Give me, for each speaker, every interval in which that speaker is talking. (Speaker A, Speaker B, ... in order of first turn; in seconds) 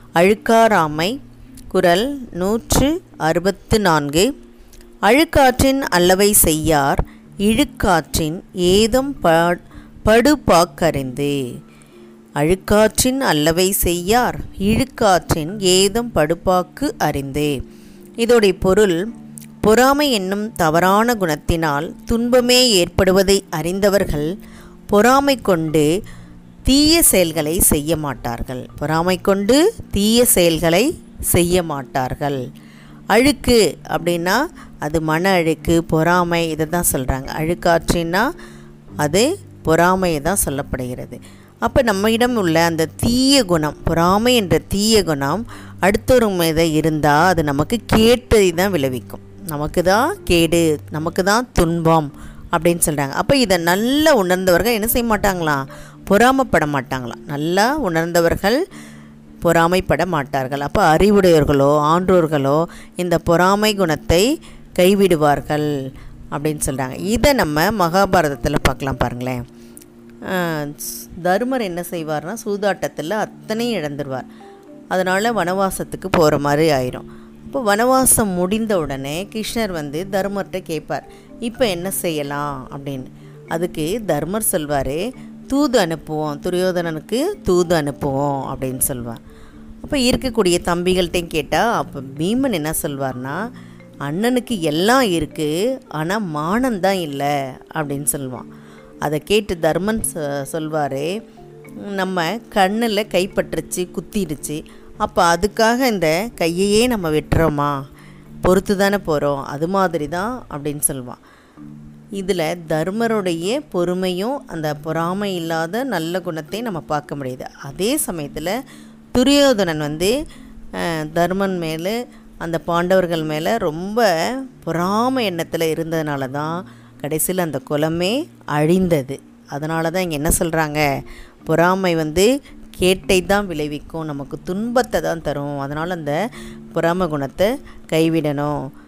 Speaker A: 0.2-1.1, 1.7-4.3, 5.1-11.3, 12.4-17.5, 18.2-19.0, 19.6-24.3, 24.9-25.9, 26.6-32.4, 33.1-38.3, 39.0-58.6, 59.4-64.2, 64.8-65.7, 66.3-69.4, 70.3-74.3, 74.9-89.2, 89.8-93.4, 94.0-98.5, 99.0-101.1, 101.9-107.7, 108.4-111.2, 112.2-118.5, 119.1-120.1, 120.8-130.8, 131.4-136.2, 136.7-138.7